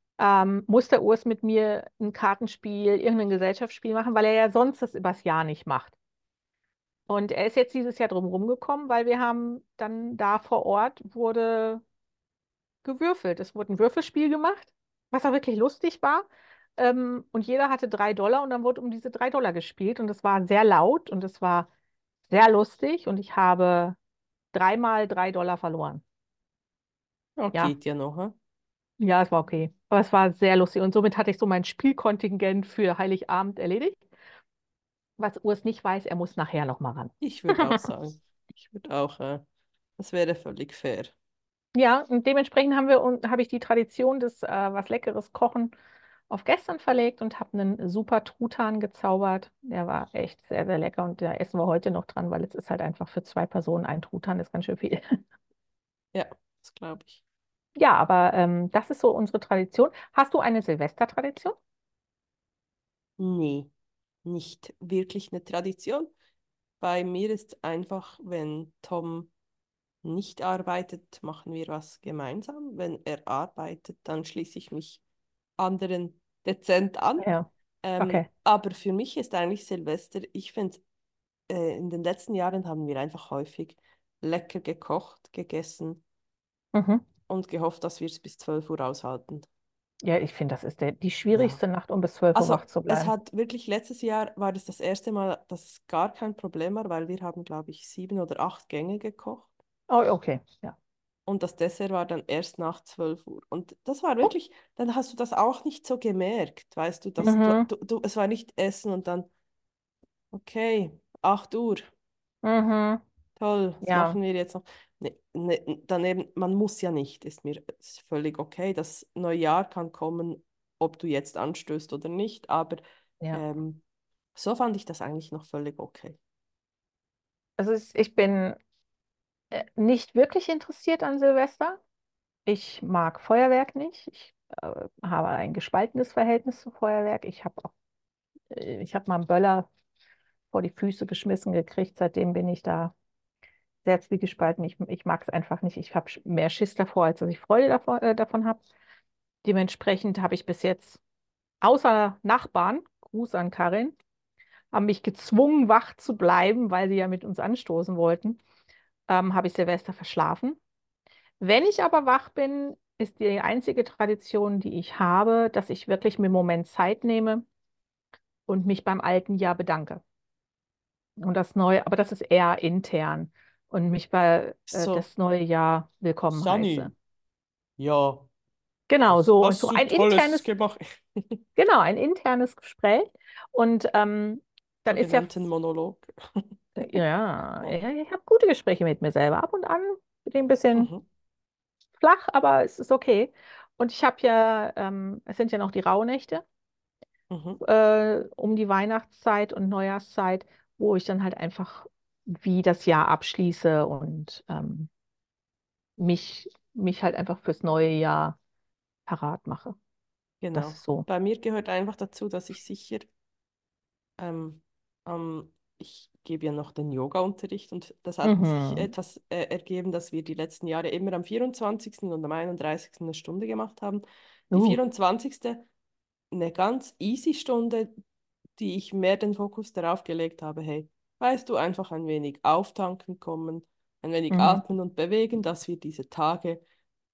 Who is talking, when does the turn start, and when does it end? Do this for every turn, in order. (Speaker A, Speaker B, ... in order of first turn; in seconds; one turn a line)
Speaker A: 0.2-5.9
Speaker A: 7.1-11.8
Speaker A: 12.8-21.7
Speaker A: 22.3-24.0
Speaker A: 24.5-26.0
Speaker B: 27.4-28.4
Speaker A: 29.0-34.0
Speaker A: 35.2-37.8
Speaker B: 37.2-39.5
Speaker B: 40.0-41.1
Speaker A: 41.8-45.7
Speaker A: 46.3-55.2
Speaker B: 56.1-57.2
Speaker A: 57.8-61.6
Speaker B: 63.2-63.7
Speaker B: 64.2-66.1
Speaker B: 66.8-69.3
Speaker B: 70.0-75.0
Speaker B: 75.6-77.3
Speaker A: 77.2-78.3
Speaker B: 77.8-80.8
Speaker B: 81.5-86.0
Speaker A: 86.7-87.0
Speaker B: 87.3-89.5
Speaker A: 90.0-93.1
Speaker B: 91.3-91.6
Speaker B: 92.3-99.5
Speaker A: 99.9-100.8
Speaker B: 101.3-109.3
Speaker A: 107.2-107.7
Speaker B: 110.3-111.9
Speaker A: 112.4-113.0
Speaker B: 113.4-122.8
Speaker A: 113.8-114.2
Speaker B: 123.3-123.8
Speaker B: 124.3-126.2
Speaker A: 127.6-128.6
Speaker A: 129.5-131.8
Speaker A: 132.5-137.7
Speaker A: 138.5-139.7
Speaker A: 140.5-142.9
Speaker A: 143.8-148.6
Speaker A: 149.4-151.0
Speaker A: 151.6-154.0
Speaker A: 154.7-158.4
Speaker A: 159.1-160.6
Speaker A: 161.4-167.4
Speaker A: 168.5-170.0
Speaker A: 171.2-176.9
Speaker B: 174.7-175.1
Speaker B: 176.3-176.9
Speaker B: 177.8-178.3
Speaker A: 178.9-180.5
Speaker B: 179.1-181.4
Speaker A: 181.6-185.5
Speaker B: 184.9-187.0
Speaker A: 186.8-190.9
Speaker B: 190.7-191.1
Speaker A: 192.0-196.4
Speaker B: 197.3-197.6
Speaker A: 197.6-204.9
Speaker A: 206.0-208.4
Speaker A: 209.1-209.8
Speaker B: 210.4-213.1
Speaker A: 210.5-211.1
Speaker B: 214.2-225.7
Speaker A: 218.2-218.9
Speaker A: 224.5-224.8
Speaker B: 226.3-227.9
Speaker B: 228.6-236.6
Speaker A: 234.3-234.6